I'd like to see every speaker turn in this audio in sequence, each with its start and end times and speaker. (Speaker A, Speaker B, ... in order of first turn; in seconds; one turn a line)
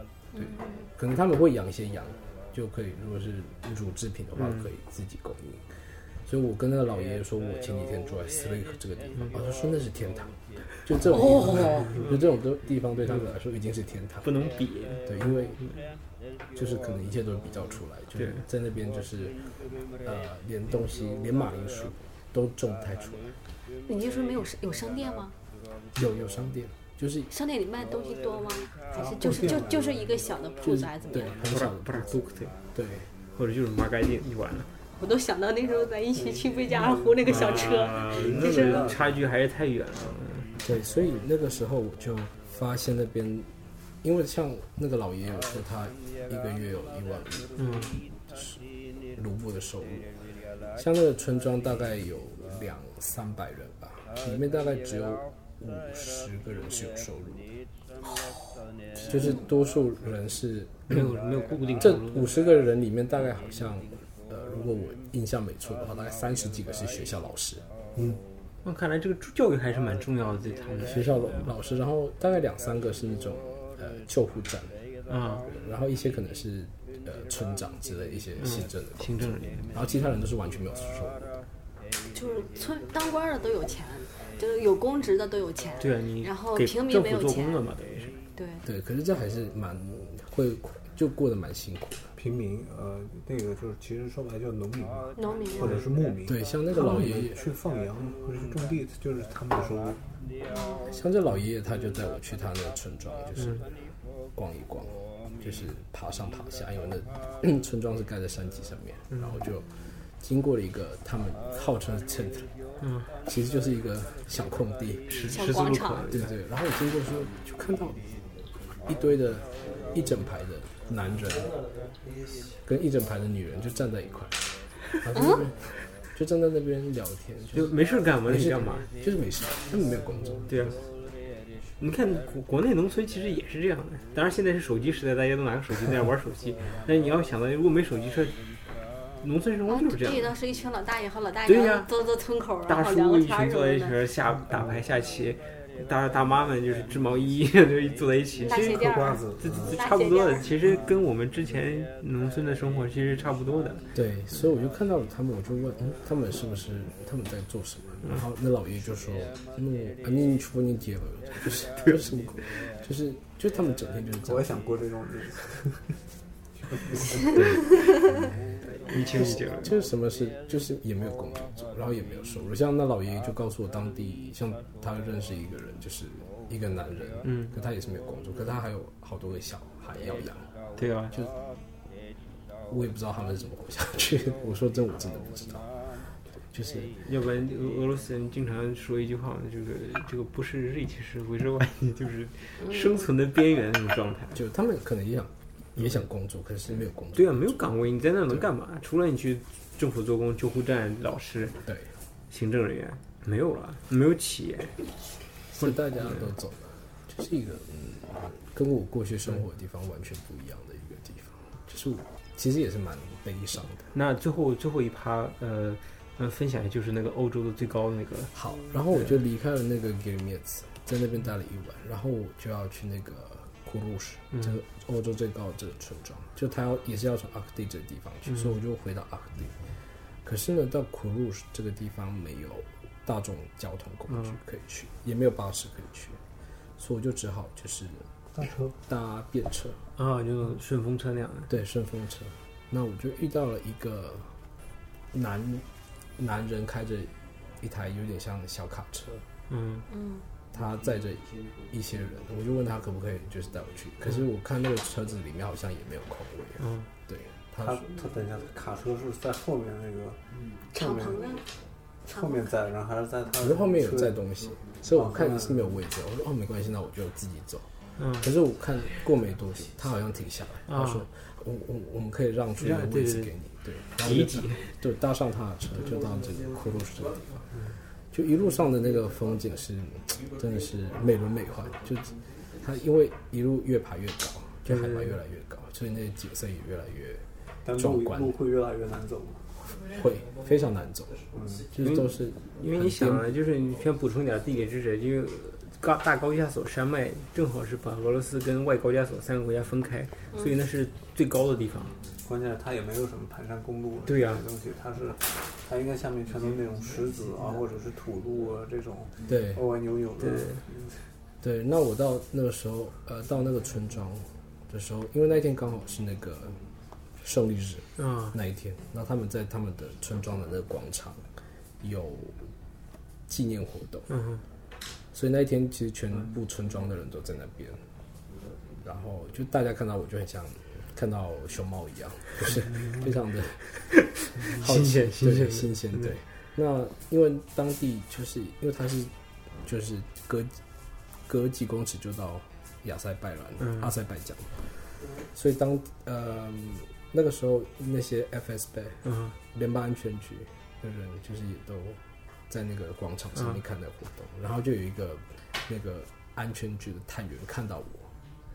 Speaker A: 0.3-0.9
Speaker B: 0.3-5.7
Speaker C: 4.3-4.7
Speaker B: 6.2-14.3
Speaker A: 11.1-12.0
Speaker C: 11.2-12.2
Speaker C: 14.2-15.1
Speaker B: 15.0-15.6
Speaker B: 16.5-19.4
Speaker C: 18.2-18.4
Speaker B: 20.0-23.3
Speaker A: 23.9-25.3
Speaker B: 25.9-27.3
Speaker A: 27.3-31.4
Speaker D: 28.9-30.1
Speaker B: 30.6-32.1
Speaker C: 31.4-32.5
Speaker B: 32.7-33.1
Speaker C: 33.3-34.7
Speaker A: 35.0-38.9
Speaker D: 36.1-39.1
Speaker C: 37.2-40.5
Speaker B: 40.6-43.5
Speaker B: 44.0-47.5
Speaker C: 47.6-48.0
Speaker B: 48.3-48.6
Speaker B: 49.1-50.1
Speaker B: 50.8-57.4
Speaker A: 58.0-59.3
Speaker B: 59.0-61.1
Speaker C: 60.9-62.3
Speaker B: 61.8-67.6
Speaker C: 68.6-71.5
Speaker B: 70.8-74.7
Speaker C: 75.1-75.5
Speaker B: 75.4-81.3
Speaker C: 78.4-79.7
Speaker A: 82.1-87.6
Speaker C: 85.8-88.2
Speaker A: 88.3-88.6
Speaker B: 88.6-92.1
Speaker D: 92.2-100.0
Speaker A: 95.2-95.8
Speaker B: 96.2-97.4
Speaker A: 100.5-100.9
Speaker B: 100.9-103.7
Speaker C: 103.4-103.6
Speaker B: 104.3-109.7
Speaker C: 109.1-109.5
Speaker B: 110.2-112.5
Speaker C: 112.8-113.1
Speaker B: 113.2-115.2
Speaker C: 115.1-116.3
Speaker A: 115.3-116.1
Speaker B: 116.1-118.0
Speaker B: 118.8-121.6
Speaker B: 122.6-124.4
Speaker B: 124.9-130.6
Speaker A: 125.1-125.5
Speaker C: 127.5-128.9
Speaker C: 130.5-130.8
Speaker C: 131.8-138.4
Speaker C: 139.2-140.3
Speaker A: 139.7-144.0
Speaker C: 141.4-141.9
Speaker C: 142.7-153.8
Speaker A: 148.4-150.5
Speaker D: 148.5-149.8
Speaker B: 153.9-164.5
Speaker D: 164.2-165.9
Speaker D: 166.6-167.5
Speaker B: 167.2-168.4
Speaker C: 168.7-169.8
Speaker B: 169.1-180.5
Speaker C: 177.2-177.5
Speaker C: 180.8-181.1
Speaker B: 182.7-185.7
Speaker B: 186.5-186.9
Speaker C: 187.1-194.4
Speaker B: 194.3-197.6
Speaker C: 197.1-201.6
Speaker B: 201.6-201.9
Speaker C: 202.3-204.8
Speaker B: 205.5-213.9
Speaker C: 205.6-206.3
Speaker C: 213.9-218.3
Speaker B: 218.3-229.5
Speaker C: 224.3-224.6
Speaker B: 230.2-236.2
Speaker C: 234.1-234.4
Speaker B: 236.8-238.1
Speaker D: 238.3-238.7
Speaker B: 238.9-239.8
Speaker C: 240.0-241.5
Speaker B: 241.5-244.3
Speaker B: 245.1-245.6
Speaker B: 246.2-249.2
Speaker C: 249.5-249.8
Speaker A: 249.9-250.2
Speaker B: 250.5-257.9
Speaker C: 256.6-256.9
Speaker D: 257.6-260.2
Speaker D: 260.7-261.4
Speaker A: 260.7-261.4
Speaker D: 262.1-264.2
Speaker A: 262.1-262.6
Speaker B: 263.4-267.7
Speaker D: 264.9-265.7
Speaker C: 268.0-268.3
Speaker B: 268.2-277.4
Speaker C: 270.7-271.1
Speaker C: 272.6-273.3
Speaker C: 274.0-274.7
Speaker B: 278.1-288.4
Speaker C: 284.6-285.2
Speaker D: 287.6-289.4
Speaker B: 289.8-293.3
Speaker D: 291.3-291.7
Speaker C: 291.8-301.9
Speaker D: 302.2-311.0
Speaker C: 304.1-304.4
Speaker B: 309.3-309.6
Speaker C: 310.2-310.6
Speaker B: 311.4-316.6
Speaker B: 317.2-321.3
Speaker C: 318.0-318.3
Speaker B: 321.8-322.4
Speaker B: 323.3-324.1
Speaker C: 324.1-324.4
Speaker B: 325.1-327.8
Speaker B: 328.8-339.1
Speaker C: 334.1-336.1
Speaker B: 339.6-340.5
Speaker B: 341.3-358.1
Speaker C: 343.6-343.9
Speaker C: 349.0-349.3
Speaker C: 353.3-353.6